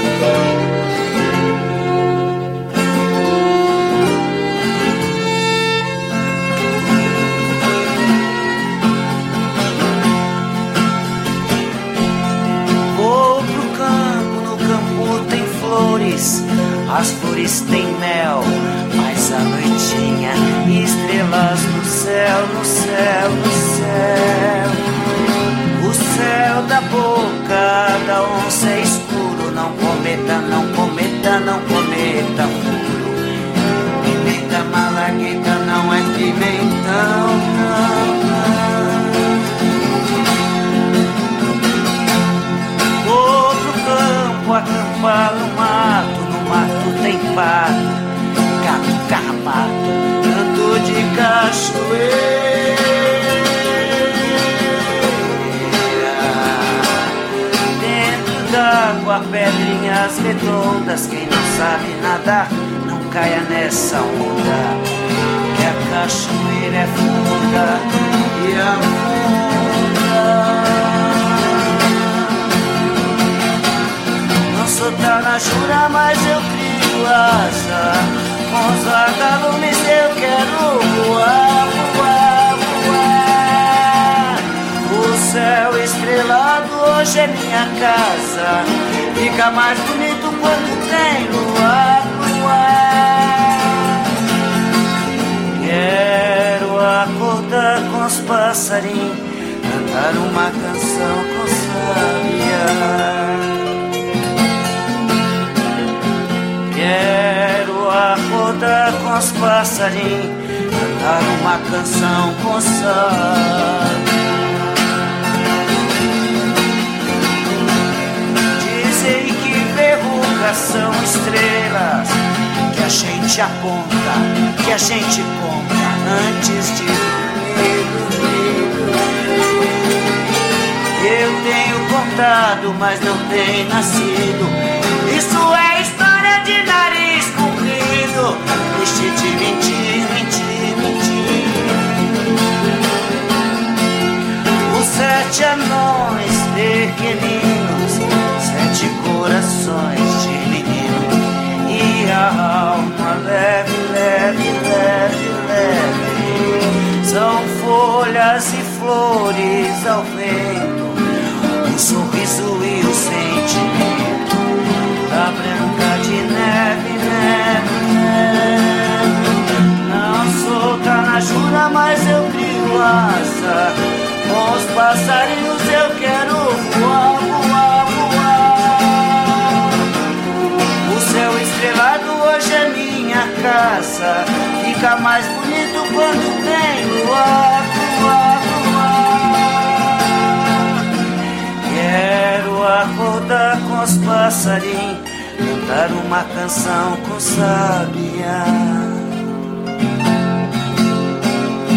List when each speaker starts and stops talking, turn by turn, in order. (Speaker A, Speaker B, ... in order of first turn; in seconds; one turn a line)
Speaker A: 12.9-24.8
Speaker A: 25.8-33.2
Speaker A: 34.0-39.4
Speaker A: 43.0-47.9
Speaker A: 48.6-53.1
Speaker A: 55.2-57.0
Speaker A: 57.8-64.8
Speaker A: 65.5-72.4
Speaker A: 74.5-94.0
Speaker A: 95.5-103.6
Speaker A: 106.7-114.0
Speaker A: 118.5-129.1
Speaker A: 130.9-141.9
Speaker A: 144.7-161.0
Speaker A: 161.6-164.3
Speaker A: 165.1-179.7
Speaker A: 180.8-189.9
Speaker A: 191.6-199.0